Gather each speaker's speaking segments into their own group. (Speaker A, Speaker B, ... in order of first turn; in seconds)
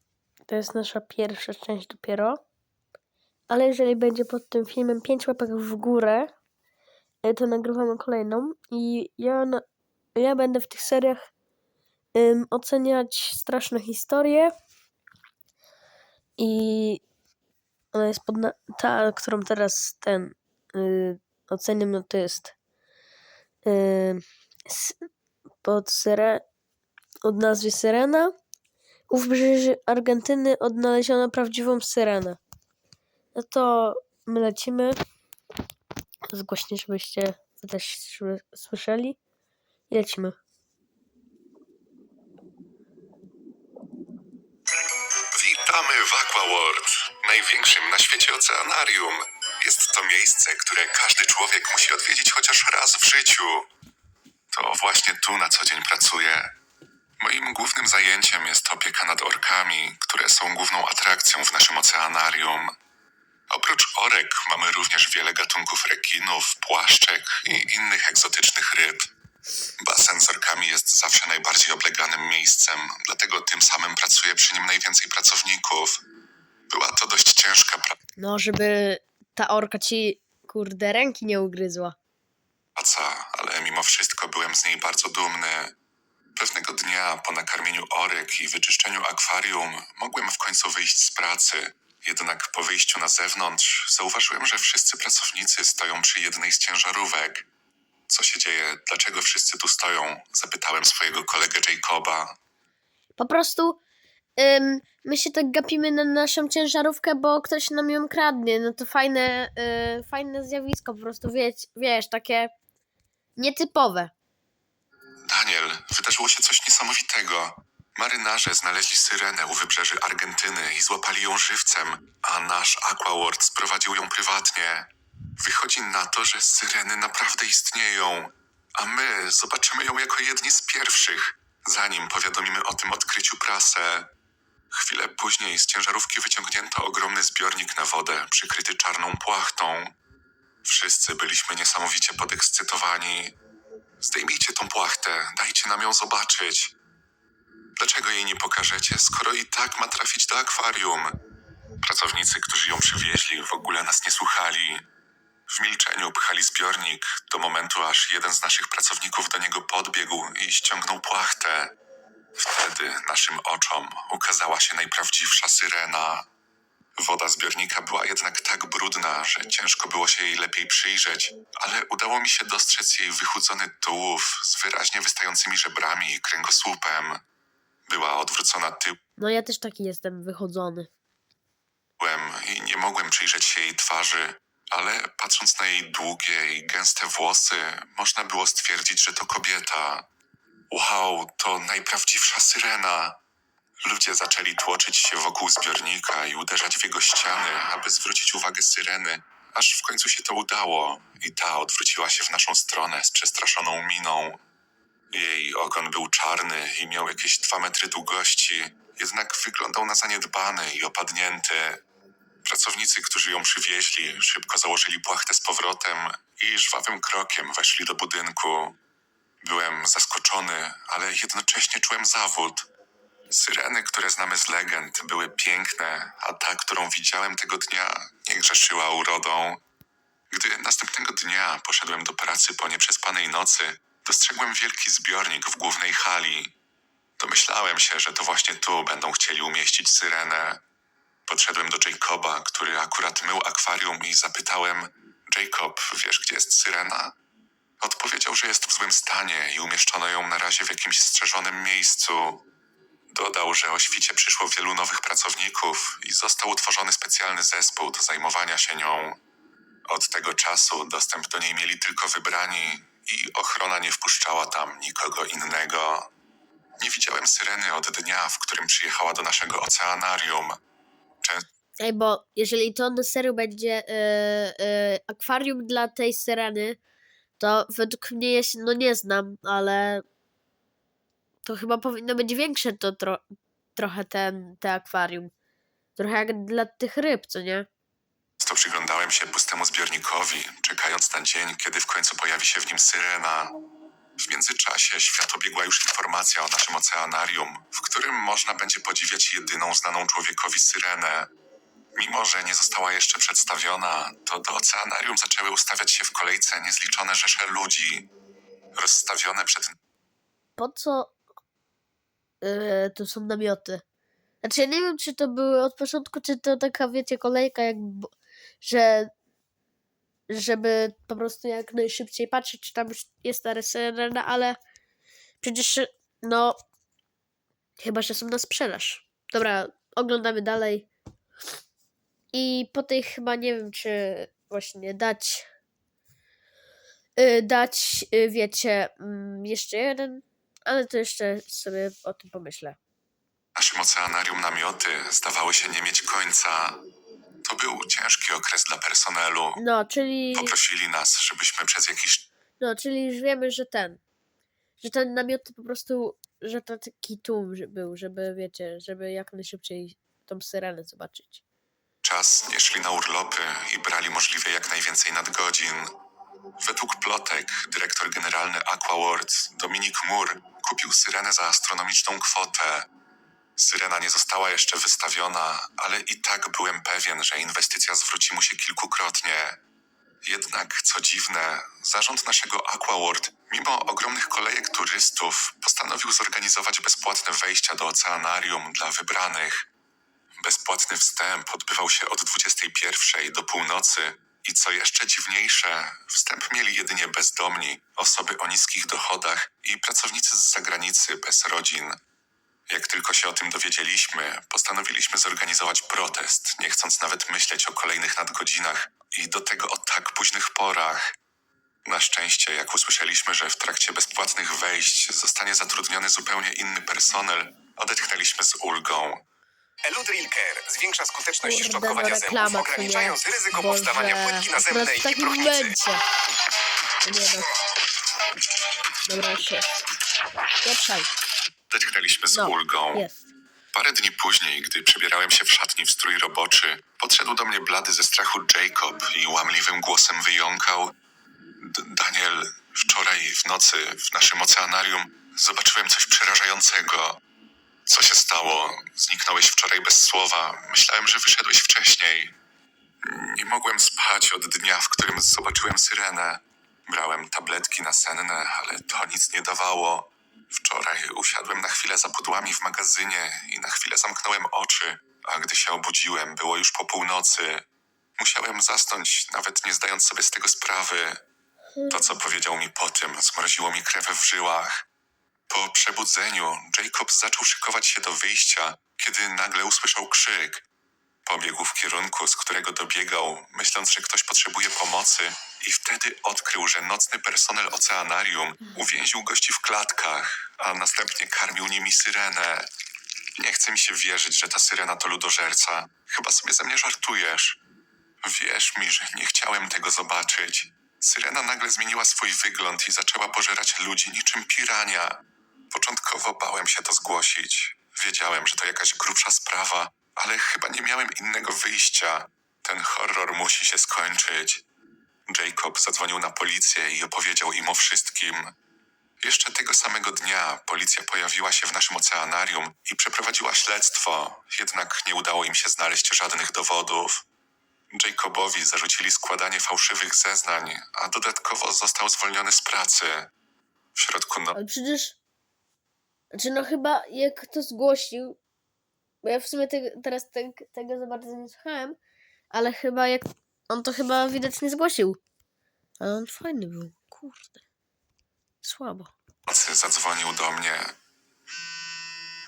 Speaker A: 0.5-2.4, 3.5-6.3, 7.2-9.6, 10.2-11.3, 12.2-14.5, 16.4-17.0, 17.9-22.5, 23.6-25.1, 25.6-26.4, 27.2-28.3, 29.1-32.4, 33.4-35.0, 36.3-39.2, 39.9-40.4, 78.2-82.0, 103.2-103.8, 104.4-112.5, 113.4-114.1, 179.2-180.9, 271.8-276.8, 277.4-280.0, 281.4-283.2, 283.8-285.3, 286.0-287.7, 310.6-311.1, 312.4-313.8, 314.4-318.1, 318.6-319.1, 320.3-324.6, 325.4-326.6, 327.8-330.9, 332.3-335.5, 337.2-342.8, 349.6-350.6, 352.6-354.0, 354.8-361.4, 421.4-426.0, 427.0-427.5, 429.1-429.7, 430.6-431.1, 432.3-433.3, 471.8-472.1, 534.5-535.2, 536.3-538.4, 539.2-542.0, 542.5-545.2, 546.0-547.6, 548.6-549.1
Speaker B: 45.3-53.7, 54.5-56.5, 57.2-62.7, 63.5-69.1, 69.8-76.0, 76.7-78.0, 82.8-85.8, 86.4-97.5, 98.1-102.4, 115.2-134.1, 134.7-139.9, 140.6-143.4, 144.0-146.7, 147.8-151.2, 151.8-154.8, 155.5-161.8, 162.4-166.3, 167.0-177.2, 177.9-179.0, 182.0-190.1, 190.7-193.2, 193.8-204.4, 205.1-211.8, 212.4-218.8, 219.4-222.7, 223.3-229.6, 230.3-236.5, 237.2-240.6, 241.3-247.2, 247.8-252.4, 253.1-259.2, 259.9-266.1, 266.8-270.6, 288.4-293.6, 294.2-301.3, 301.9-308.1, 308.8-309.8, 343.6-346.8, 347.4-349.6, 350.3-352.3, 362.0-365.9, 366.6-372.9, 373.6-379.6, 380.2-389.7, 390.4-402.0, 402.7-411.2, 411.9-419.2, 431.7-433.1, 433.7-440.9, 441.6-447.2, 447.9-452.4, 453.0-467.6, 468.2-471.2, 471.9-474.9, 475.5-480.6, 481.2-492.7, 493.4-497.6, 498.2-514.6, 515.3-518.5, 519.2-527.2, 527.9-533.3, 534.0-534.6, 549.5-551.0
Speaker C: 419.9-425.8